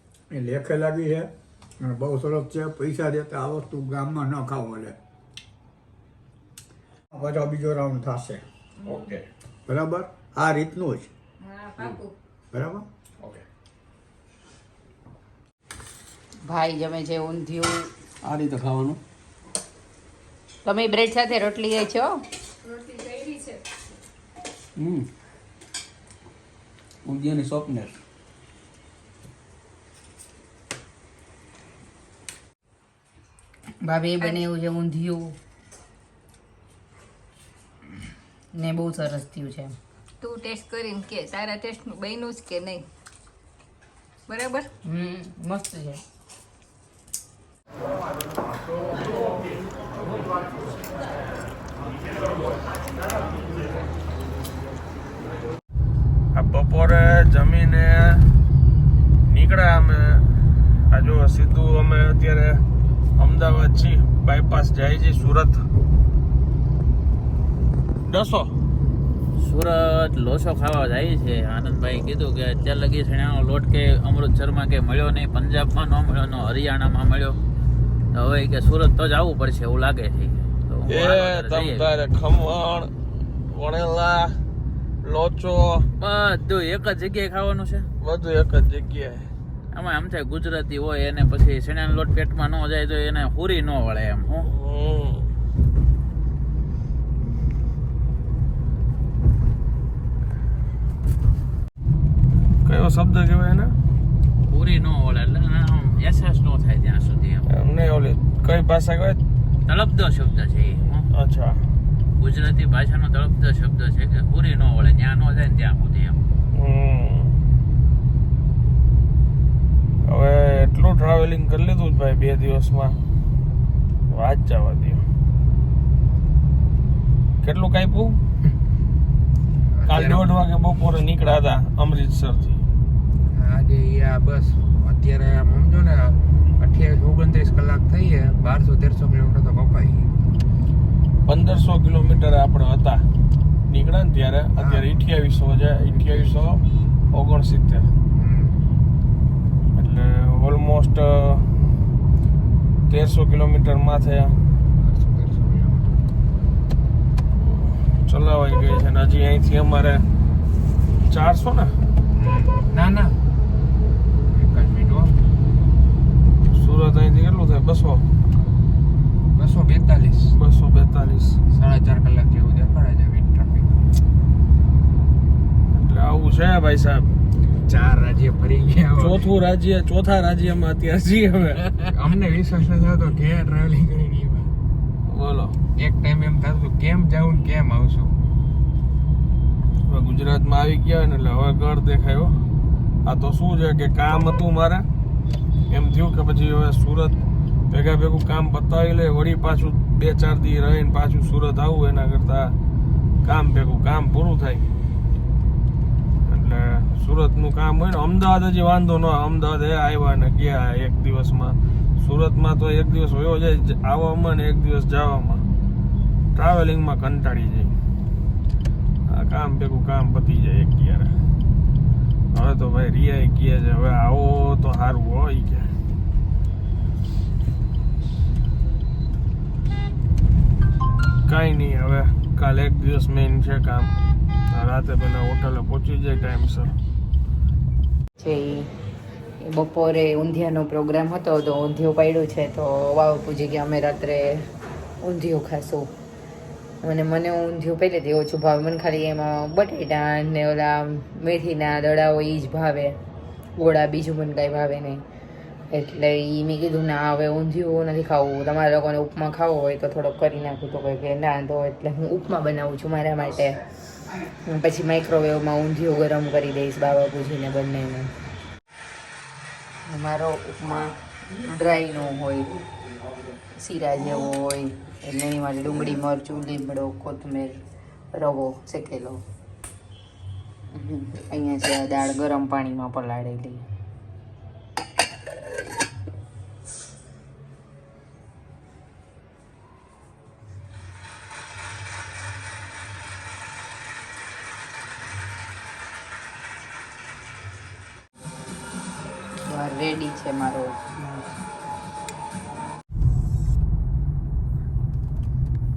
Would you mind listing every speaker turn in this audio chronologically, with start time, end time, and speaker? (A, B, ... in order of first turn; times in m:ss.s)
0:00.3-0:05.0 A
0:07.1-0:08.4 A
0:08.9-0:09.2 B
0:09.7-0:11.1 A
0:11.4-0:12.2 C
0:12.5-0:12.9 A
0:16.5-0:17.9 D
0:18.2-0:19.0 B
0:20.6-0:22.2 D
0:22.6-0:23.6 C
0:24.8-0:25.0 B
0:27.1-0:28.0 B
0:33.8-0:35.4 D
0:38.6-0:39.7 D
0:40.2-0:42.9 C
0:44.3-0:44.7 C
0:44.8-0:46.0 D
0:56.4-0:58.3 E
0:59.3-1:00.3 E
1:00.9-1:02.6 E
1:03.2-1:05.6 E
1:08.1-1:08.6 E
1:09.4-1:17.4 F
1:18.1-1:21.9 F
1:20.9-1:22.9 E
1:23.5-1:24.4 E
1:25.0-1:25.9 E
1:26.0-1:27.9 F
1:28.0-1:29.3 E
1:29.7-1:34.5 F
1:34.5-1:35.3 E
1:42.6-1:43.7 E
1:44.5-1:47.4 F
1:47.5-1:49.2 E
1:49.7-1:51.1 F
1:51.1-1:51.6 E
1:52.2-1:56.2 F
1:56.6-1:57.4 E
2:00.1-2:03.0 E
2:04.1-2:05.0 E
2:07.4-2:08.2 E
2:09.7-2:10.3 G
2:09.9-2:12.6 E
2:13.3-2:20.1 G
2:21.3-2:23.0 E
2:23.7-2:26.6 E
2:24.6-2:25.0 G
2:27.1-2:27.9 E
2:28.1-2:28.6 G
2:29.8-2:31.6 E
2:32.9-2:34.4 E
2:34.8-2:36.0 G
2:37.4-2:40.0 E
2:41.1-2:41.7 E
2:42.2-2:43.2 G
2:44.3-2:45.2 G
2:46.5-2:48.0 E
2:49.4-2:50.3 G
2:50.4-2:51.4 E
2:51.5-2:53.8 G
2:55.7-2:57.1 E
2:57.7-2:59.3 G
2:59.0-3:01.7 E
3:01.9-3:04.5 G
3:05.1-3:05.6 E
3:05.8-3:08.2 G
3:09.9-3:12.3 E
3:13.0-3:14.9 E
3:15.7-3:17.2 E
3:17.7-3:22.6 E
3:23.2-3:24.7 E
3:26.3-3:35.4 E
3:36.4-3:37.7 E
3:39.1-3:41.1 E
3:42.3-3:45.7 E
3:51.3-3:53.9 E
3:54.5-3:56.7 E
3:58.2-3:58.7 D
3:59.4-4:04.4 D
4:05.0-4:05.9 D
4:06.8-4:13.0 D
4:13.6-4:15.0 D
4:15.7-4:23.6 D
4:24.4-4:28.1 D
4:29.9-4:32.5 D
4:33.6-4:37.6 D
4:38.1-4:39.2 D
4:40.8-4:43.6 D
4:59.5-5:01.3 D